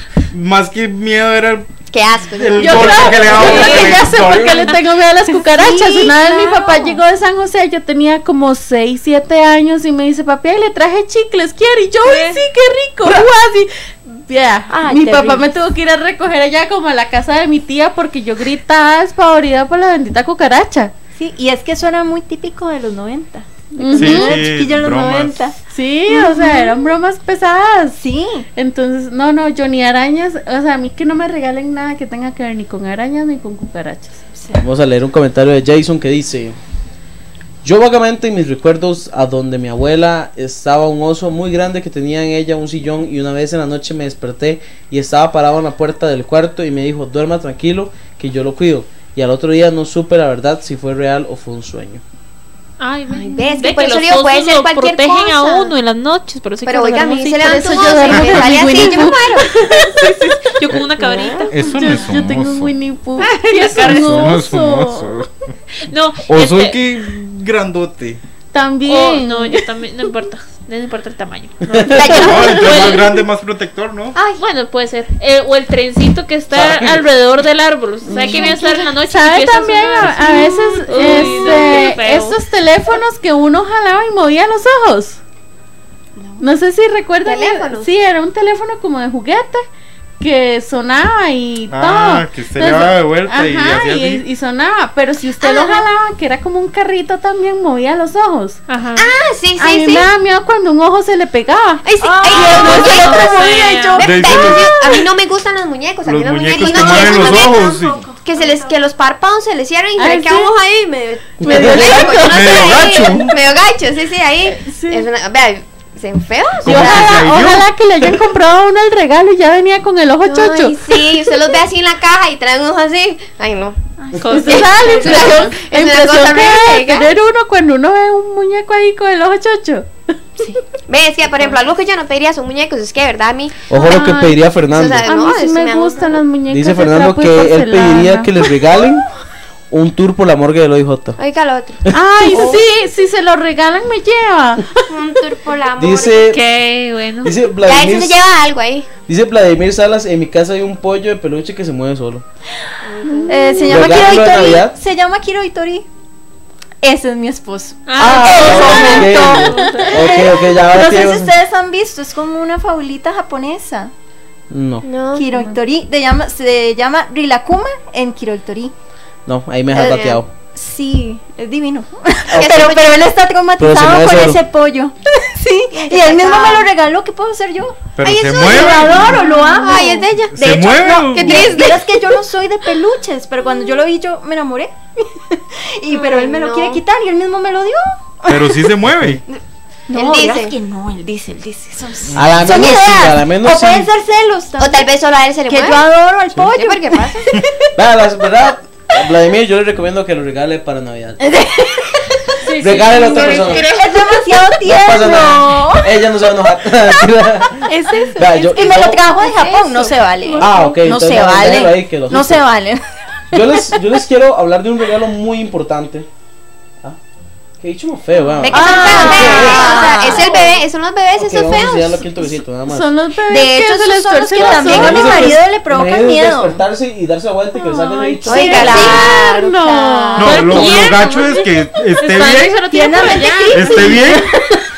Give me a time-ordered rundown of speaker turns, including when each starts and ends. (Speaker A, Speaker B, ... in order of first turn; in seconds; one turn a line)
Speaker A: 0.3-1.7
Speaker B: 1.9-3.7
Speaker A: 2.3-4.8
Speaker C: 2.6-20.9
Speaker D: 3.3-4.5
Speaker E: 3.4-3.9
Speaker E: 5.3-7.0
Speaker E: 12.0-12.5
Speaker E: 13.0-13.3
Speaker E: 14.7-15.5
Speaker E: 21.1-27.0
Speaker C: 23.8-24.5
Speaker A: 23.9-25.5
Speaker C: 25.7-28.0
Speaker E: 28.0-28.5
Speaker C: 28.6-34.2
Speaker E: 34.3-34.6
Speaker F: 34.6-36.6
Speaker F: 37.6-52.0
Speaker D: 52.8-57.7
Speaker B: 53.1-55.7
Speaker B: 56.7-59.6
Speaker C: 57.4-60.3
Speaker D: 59.9-61.5
Speaker C: 61.2-65.2
Speaker A: 61.5-62.8
Speaker D: 63.4-64.3
Speaker A: 63.7-65.3
Speaker D: 65.8-66.8
Speaker A: 66.3-68.2
Speaker C: 68.5-69.7
Speaker D: 68.9-73.2
Speaker F: 71.7-72.2
Speaker B: 71.9-72.8
Speaker A: 72.1-74.2
Speaker D: 74.4-82.4
Speaker F: 76.5-77.0
Speaker C: 78.0-85.2
Speaker E: 78.3-78.7
Speaker E: 81.1-81.7
Speaker E: 86.2-86.5
Speaker C: 86.4-89.6
Speaker B: 87.2-87.9
Speaker C: 90.2-98.6
Speaker A: 91.7-94.2
Speaker B: 95.5-95.8
Speaker D: 98.7-99.1
Speaker B: 99.0-100.1
Speaker C: 99.6-103.0
Speaker B: 101.8-107.7
Speaker E: 102.0-104.9
Speaker D: 102.3-104.1
Speaker A: 104.0-104.7
Speaker A: 106.1-108.1
Speaker E: 106.6-108.8
Speaker B: 108.2-117.2
Speaker C: 110.0-110.5
Speaker F: 111.4-112.0
Speaker C: 111.4-112.8
Speaker A: 112.3-113.3
Speaker C: 114.5-115.1
Speaker A: 116.6-117.7
Speaker C: 116.6-121.3
Speaker B: 120.2-123.8
Speaker E: 124.0-124.5
Speaker D: 124.2-125.6
Speaker C: 124.3-129.9
Speaker B: 124.5-127.1
Speaker B: 130.9-133.7
Speaker F: 133.7-135.1
Speaker C: 133.7-134.4
Speaker B: 134.7-136.2
Speaker C: 135.1-138.3
Speaker F: 136.5-139.1
Speaker F: 139.7-141.2
Speaker B: 141.2-141.8
Speaker C: 141.9-144.7
Speaker B: 144.9-146.4
Speaker F: 145.8-146.4
Speaker D: 146.3-147.4
Speaker F: 147.2-148.2
Speaker B: 147.6-148.9
Speaker F: 149.1-152.3
Speaker B: 152.8-154.1
Speaker C: 153.2-153.7
Speaker E: 153.3-155.9
Speaker F: 153.7-154.8
Speaker E: 156.8-163.9
Speaker D: 157.9-160.1
Speaker F: 158.0-161.3
Speaker F: 164.5-164.9
Speaker B: 164.8-165.3
Speaker E: 165.1-168.7
Speaker C: 165.3-165.5
Speaker F: 169.3-170.3
Speaker B: 169.7-170.2
Speaker E: 170.5-188.7
Speaker F: 172.3-172.6
Speaker B: 172.3-173.1
Speaker F: 173.6-174.4
Speaker B: 175.8-176.7
Speaker A: 177.9-179.3
Speaker B: 178.0-180.1
Speaker A: 180.3-181.5
Speaker B: 181.1-182.2
Speaker B: 185.9-186.8
Speaker A: 188.3-189.2
Speaker E: 189.9-194.9
Speaker B: 189.9-190.6
Speaker F: 192.1-193.9
Speaker B: 194.6-195.9
Speaker E: 195.5-198.3
Speaker B: 196.5-197.3
Speaker F: 197.8-201.3
Speaker E: 201.2-206.1
Speaker C: 202.6-203.3
Speaker F: 202.6-203.7
Speaker D: 203.1-203.9
Speaker F: 204.6-209.0
Speaker E: 206.8-207.1
Speaker E: 207.6-213.7
Speaker C: 209.2-210.4
Speaker F: 210.4-212.5
Speaker F: 213.3-216.1
Speaker F: 217.6-220.2
Speaker B: 218.4-222.1
Speaker E: 218.4-220.6
Speaker F: 221.2-222.9
Speaker C: 222.6-225.3
Speaker E: 223.3-226.6
Speaker B: 223.3-225.2
Speaker F: 224.4-229.1
Speaker C: 227.6-230.6
Speaker B: 228.3-229.4
Speaker E: 228.3-230.6
Speaker D: 230.2-234.1
Speaker A: 230.2-234.4
Speaker E: 232.7-234.6